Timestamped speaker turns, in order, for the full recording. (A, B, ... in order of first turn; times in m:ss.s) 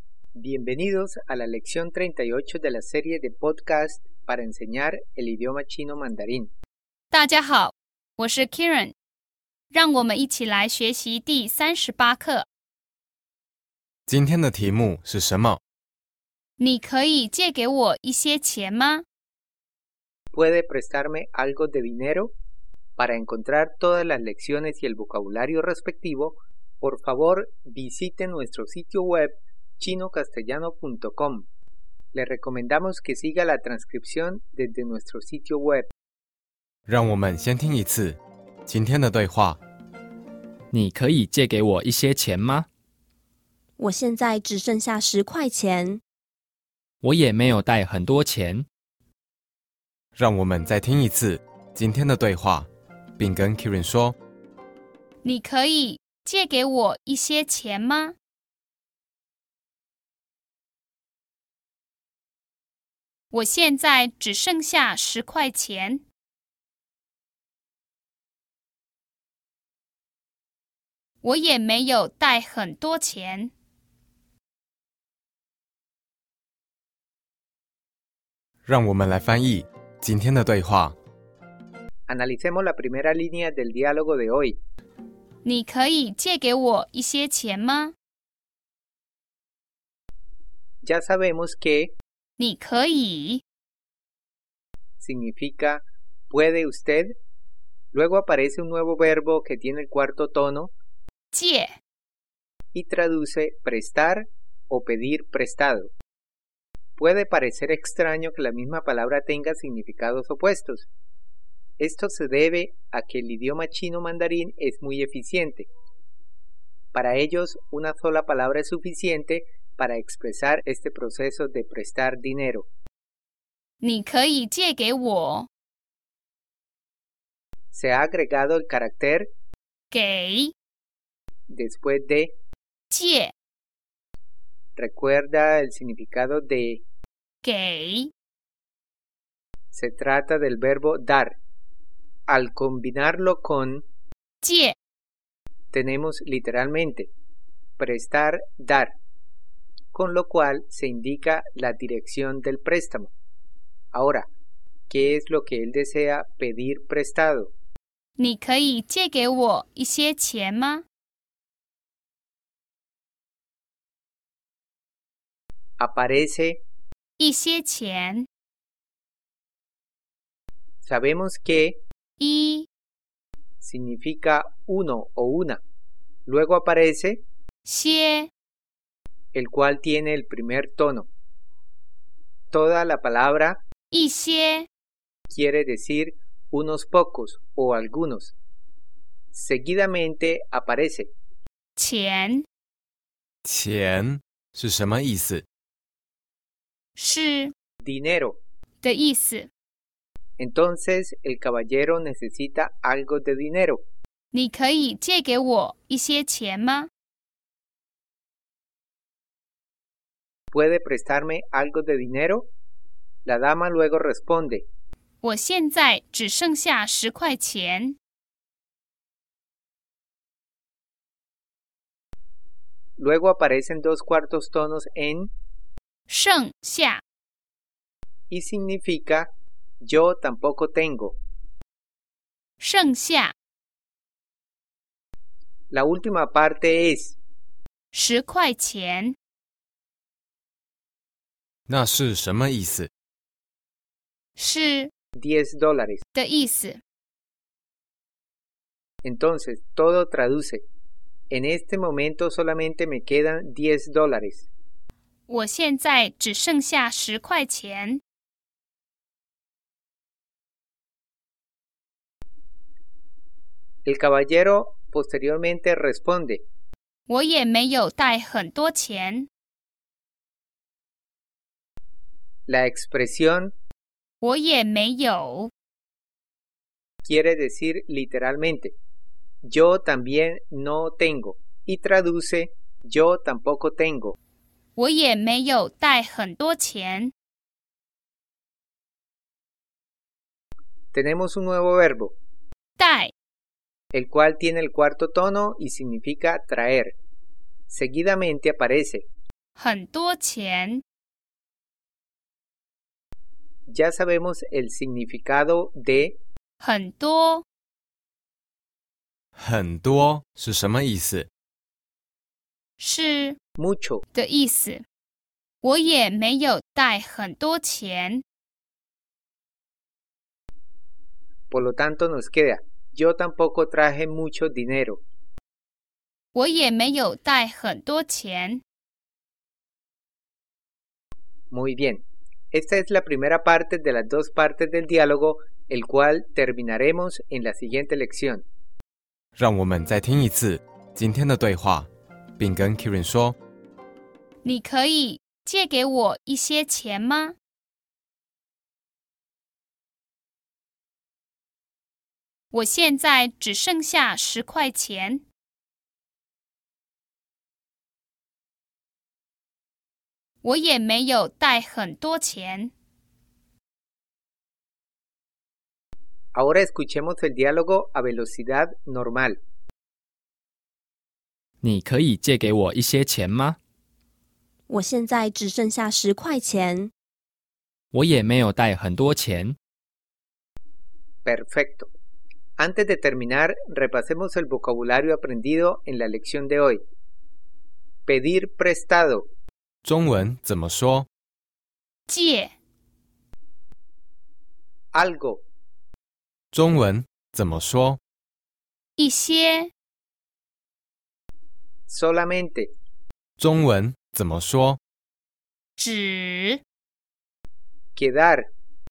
0:00.4-0:06.5 A
0:07.1-0:08.9 B
0:09.7-0:12.5 B
0:14.1-0:15.6 C
0:16.6-0:19.0 B
0:20.3-0:22.3 A
0:23.0-0:31.5 A
0:32.1-0:35.9 A
0:36.9-0:39.6 C
0:40.7-0:42.7 D
0:43.8-0:46.0 E
0:47.0-0:48.7 D
0:50.2-0:52.7 C
0:53.2-0:54.2 C
0:55.2-0:58.1 B
1:03.3-1:06.0 B
1:11.2-1:13.5 B
1:18.6-1:21.0 C
1:22.1-1:24.6 A
1:25.4-1:27.9 B
1:30.8-1:31.9 A
1:32.4-1:33.4 B
1:35.0-1:37.1 A
1:37.9-1:40.7 A
1:41.3-1:41.8 B
1:42.7-1:45.9 A
1:47.0-1:50.9 A
1:51.8-1:55.7 A
1:56.9-2:02.7 A
2:03.8-2:05.5 B
2:07.7-2:09.3 A
2:09.9-2:10.5 B
2:11.5-2:12.3 A
2:12.9-2:13.3 B
2:14.8-2:16.8 A
2:17.4-2:18.1 B
2:19.7-2:21.4 A
2:22.3-2:23.8 A
2:24.4-2:24.8 B
2:25.7-2:27.1 A
2:27.8-2:28.9 A
2:29.9-2:33.1 A
2:33.9-2:34.3 A
2:34.9-2:37.5 A
2:38.2-2:40.8 B
2:45.8-2:46.6 A
2:47.2-2:48.3 B
2:50.8-2:51.8 A
2:52.2-2:52.7 B
2:53.6-2:55.6 A
2:56.2-2:57.2 A
2:57.6-2:58.3 B
2:59.3-3:01.1 A
3:02.5-3:03.6 A
3:03.9-3:04.7 B
3:05.3-3:08.4 A
3:09.3-3:11.1 A
3:11.8-3:12.4 B
3:13.4-3:15.4 C
3:17.0-3:17.5 B
3:17.8-3:18.4 A
3:18.8-3:19.5 B
3:20.4-3:23.8 A
3:24.3-3:26.9 B
3:30.5-3:32.5 A
3:33.2-3:34.6 A
3:35.2-3:38.0 B
3:43.0-3:45.3 A
3:46.1-3:47.0 B
3:48.3-3:49.3 A
3:49.8-3:51.2 A
3:52.6-3:53.3 B
3:55.7-3:57.2 A
3:57.9-3:59.2 B
4:01.7-4:02.9 C
4:04.4-4:04.9 B
4:05.2-4:06.0 A
4:06.2-4:06.8 B
4:09.0-4:10.6 A
4:11.3-4:14.5 A
4:15.3-4:18.0 B
4:23.8-4:26.4 A
4:27.1-4:29.3 B
4:32.5-4:33.5 A
4:34.2-4:35.5 B
4:37.0-4:38.8 A
4:39.4-4:44.2 A
4:44.8-4:47.1 B
4:50.9-4:52.2 A
4:52.8-4:53.1 B
4:53.9-4:57.0 A
4:57.7-4:59.1 A
4:59.6-5:00.8 B
5:03.7-5:06.2 A
5:06.6-5:07.4 B
5:09.4-5:11.3 C
5:12.8-5:13.4 B
5:13.6-5:14.0 A
5:14.1-5:14.8 B
5:15.6-5:18.2 B
5:21.5-5:25.0 A
5:26.3-5:28.6 B
5:31.5-5:38.4 A
5:39.4-5:43.4 C
5:44.4-5:47.4 B
5:52.5-5:55.2 B
6:00.4-6:02.7 B
6:06.3-6:09.4 A
6:11.6-6:13.6 D
6:14.7-6:16.9 E
6:17.9-6:19.6 D
6:21.2-6:21.9 A
6:22.6-6:26.8 A
6:28.1-6:29.3 A
6:29.8-6:31.1 C
6:32.1-6:32.5 B
6:34.9-6:35.4 A
6:36.5-6:38.0 C
6:39.0-6:39.7 B
6:41.9-6:42.7 A
6:43.4-6:44.8 C
6:45.8-6:46.6 B
6:47.9-6:48.5 A